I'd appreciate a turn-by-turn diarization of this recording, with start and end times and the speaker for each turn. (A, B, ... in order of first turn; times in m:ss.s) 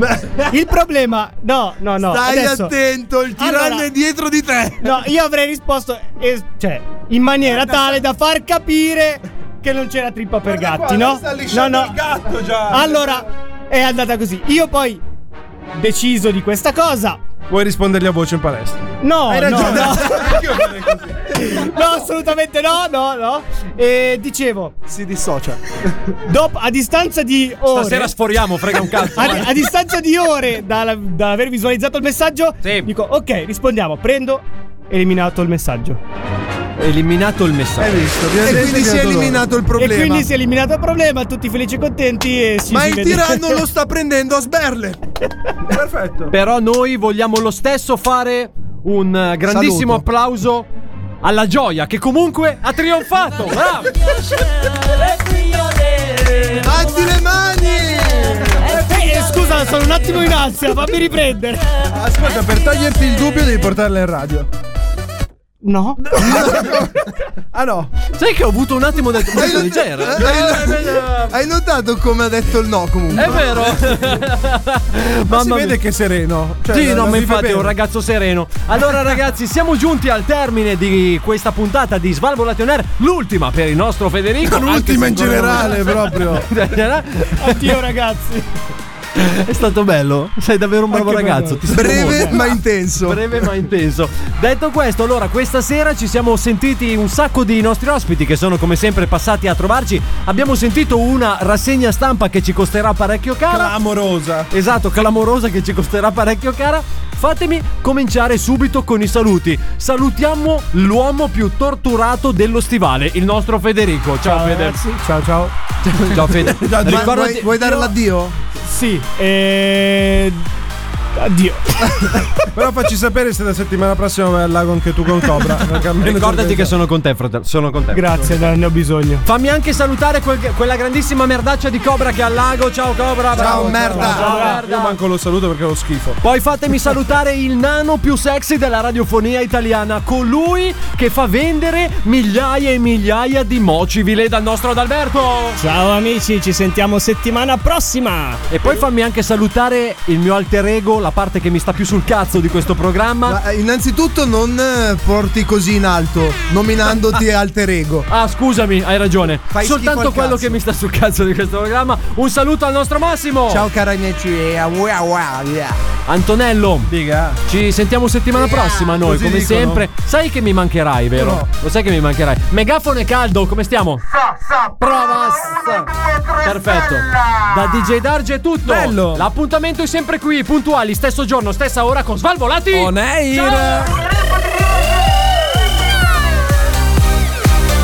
0:00.1-0:00.4 A
0:00.5-0:02.7 B
0:02.0-0:05.0 A
0:03.4-0:03.9 B
0:04.8-0:12.0 B
0:07.4-0:08.0 C
0:10.4-0:13.2 C
0:12.7-0:15.0 B
0:15.7-0:17.2 B
0:17.5-0:21.3 C
0:19.0-0:20.6 B
0:21.3-0:24.8 B
0:24.9-0:25.6 C
0:25.1-0:25.5 A
0:26.2-0:28.1 B
0:27.7-0:29.5 D
0:29.1-0:36.0 B
0:32.6-0:32.9 D
0:36.8-0:38.0 D
0:37.8-0:39.4 C
0:38.4-0:40.3 A
0:39.8-0:43.6 B
0:42.7-0:45.0 A
0:45.7-0:46.3 C
0:46.3-0:50.7 D
0:49.5-0:50.0 A
0:51.2-0:53.9 D
0:56.6-0:58.7 A
0:58.6-0:58.8 C
0:58.7-1:01.7 B
1:01.8-1:04.5 C
1:05.6-1:06.1 B
1:06.1-1:06.9 C
1:06.2-1:06.9 A
1:07.5-1:07.9 C
1:08.1-1:11.4 D
1:09.3-1:13.7 A
1:13.1-1:15.8 D
1:13.2-1:14.1 C
1:15.3-1:17.7 C
1:16.7-1:27.8 D
1:24.4-1:26.5 C
1:27.4-1:28.5 B
1:29.2-1:43.7 D
1:30.9-1:32.4 B
1:31.7-1:33.2 A
1:43.5-1:44.5 C
1:44.5-1:54.8 D
1:54.2-1:55.5 B
1:55.9-1:57.8 D
1:56.5-1:57.3 C
1:56.8-1:58.4 A
1:58.6-2:00.4 B
2:01.2-2:01.8 B
2:02.5-2:06.8 C
2:06.0-2:08.3 D
2:07.9-2:09.2 B
2:09.2-2:15.0 D
2:13.3-2:14.4 A
2:13.3-2:16.2 C
2:13.9-2:14.6 B
2:16.2-2:25.6 D
2:25.6-2:28.4 E
2:28.5-2:33.4 D
2:33.2-2:38.1 A
2:38.1-2:43.7 D
2:39.5-2:40.6 A
2:43.5-2:45.8 A
2:46.1-2:46.9 D
2:46.9-2:47.4 C
2:47.4-2:55.8 D
2:48.8-2:49.8 C
2:51.1-2:51.4 C
2:56.4-3:02.9 D
2:58.6-2:59.2 C
3:02.7-3:04.0 C